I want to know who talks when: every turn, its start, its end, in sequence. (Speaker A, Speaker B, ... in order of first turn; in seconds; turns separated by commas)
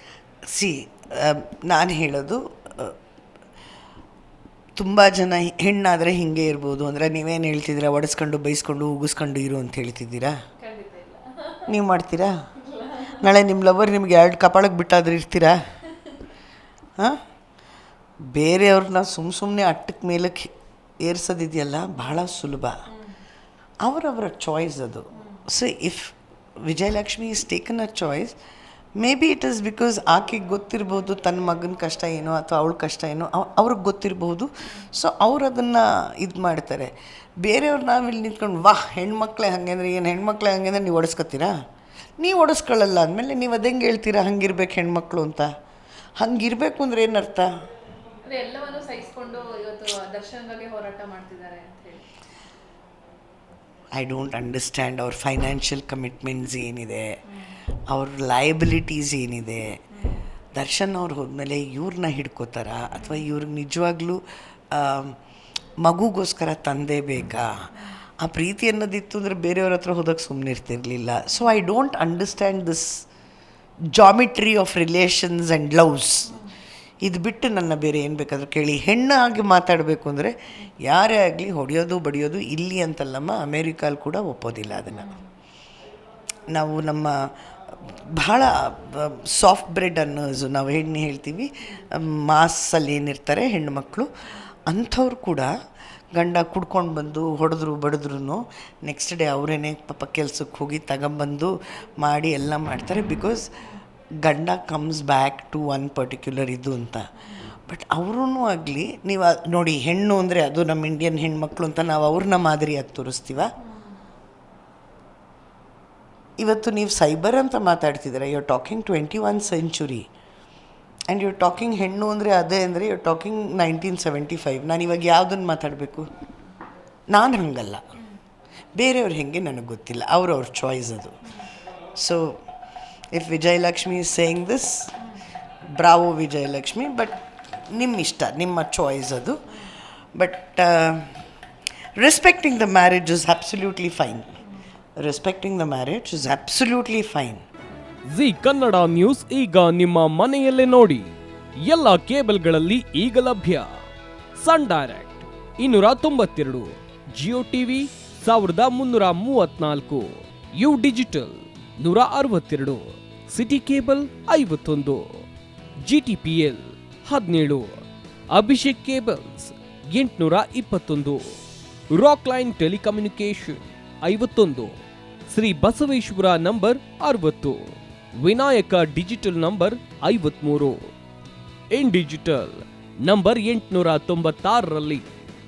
Speaker A: 0.5-2.9, Speaker A: 4.8-10.3, Speaker B: 10.6-11.7, Speaker A: 11.7-12.3, Speaker B: 12.6-13.2, Speaker A: 13.2-15.6, Speaker A: 18.2-22.8, Speaker B: 22.9-23.1, Speaker A: 23.8-28.3, Speaker B: 25.1-25.4, Speaker A: 28.9-36.9, Speaker A: 37.4-41.5, Speaker A: 42.2-45.5, Speaker A: 46.2-47.5, Speaker B: 48.3-52.0, Speaker A: 53.9-57.1, Speaker B: 57.3-57.5, Speaker A: 57.9-59.6, Speaker B: 59.9-60.2, Speaker A: 60.5-64.2, Speaker A: 64.7-65.2, Speaker A: 65.8-67.5, Speaker A: 68.2-73.0, Speaker A: 73.9-76.3, Speaker A: 77.0-80.3, Speaker A: 80.8-85.1, Speaker B: 85.0-85.2, Speaker A: 86.5-94.1, Speaker A: 94.7-95.5, Speaker A: 96.1-103.4, Speaker A: 104.2-107.1, Speaker B: 107.2-107.4, Speaker A: 107.7-113.5, Speaker B: 113.6-114.0, Speaker A: 116.4-120.1, Speaker A: 121.1-126.1, Speaker A: 127.1-127.8, Speaker A: 128.7-131.2, Speaker A: 131.9-132.4, Speaker A: 133.1-134.9, Speaker A: 135.7-137.2, Speaker A: 137.7-139.4, Speaker A: 140.1-141.1, Speaker A: 142.0-144.3, Speaker A: 145.0-147.4, Speaker C: 148.1-151.1, Speaker C: 151.6-153.7, Speaker C: 154.4-165.2, Speaker C: 165.8-167.8, Speaker C: 168.3-171.3, Speaker C: 171.9-174.8, Speaker C: 175.3-180.9, Speaker C: 181.7-185.1